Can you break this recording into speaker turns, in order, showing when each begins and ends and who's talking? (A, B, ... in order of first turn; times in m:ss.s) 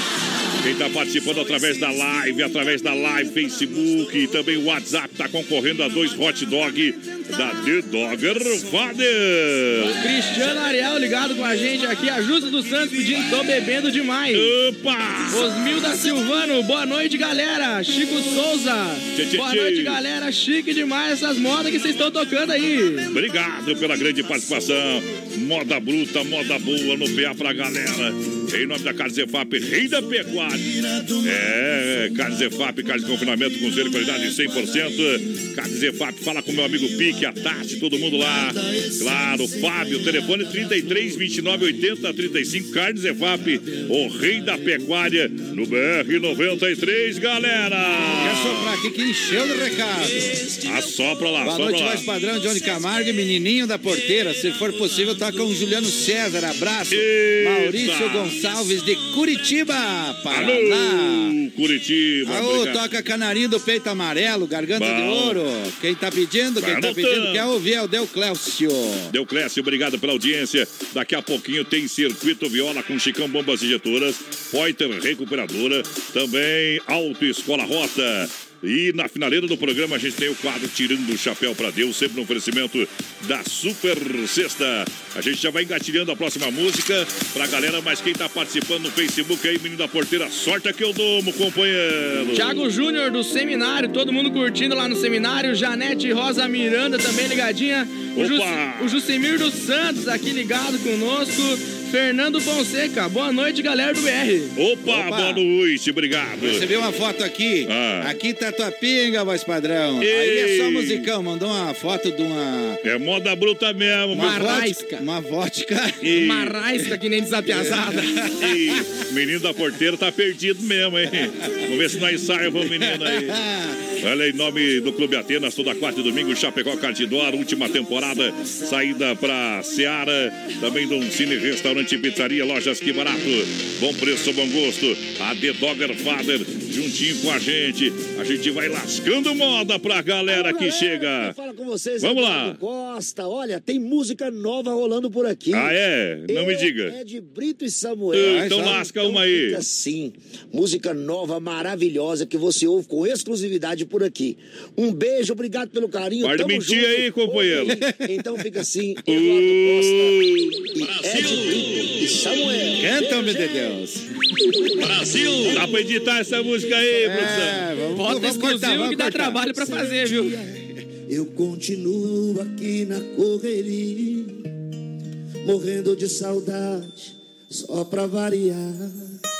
0:00.6-0:10.0 A
0:09.8-0:14.5 B
0:14.3-0:15.5 A
0:15.3-0:23.0 B
0:19.1-0:20.0 A
0:23.1-0:48.7 A
0:30.8-0:31.1 C
0:38.7-0:39.3 C
0:48.0-0:50.3 D
0:50.6-0:52.0 A
0:51.4-1:01.4 D
0:56.9-0:58.4 A
1:00.3-1:02.8 A
1:02.2-1:09.1 D
1:04.8-1:05.4 A
1:06.6-1:07.5 A
1:09.1-1:32.6 A
1:32.3-1:44.5 B
1:38.2-1:39.0 A
1:44.6-1:46.7 A
1:44.8-1:45.4 D
1:46.4-1:52.8 D
1:47.7-1:48.1 A
1:50.0-1:51.1 A
1:52.8-1:54.8 A
1:54.1-1:56.1 D
1:54.1-1:55.0 B
1:56.0-1:56.6 A
1:56.1-1:58.1 B
1:57.5-1:58.5 D
1:58.4-2:03.4 A
2:02.6-2:03.8 D
2:04.0-2:21.4 A
2:20.3-2:25.7 C
2:22.0-2:22.6 A
2:25.5-2:27.0 A
2:26.3-2:43.2 C
2:28.1-2:29.6 A
2:28.2-2:28.8 D
2:36.2-2:37.8 A
2:39.0-2:41.4 A
2:42.8-2:44.0 D
2:44.8-2:45.8 C
2:45.4-2:47.6 A
2:47.0-2:49.4 D
2:47.9-2:50.4 B
2:49.6-2:50.4 C
2:51.1-2:54.4 C
2:55.4-2:59.0 C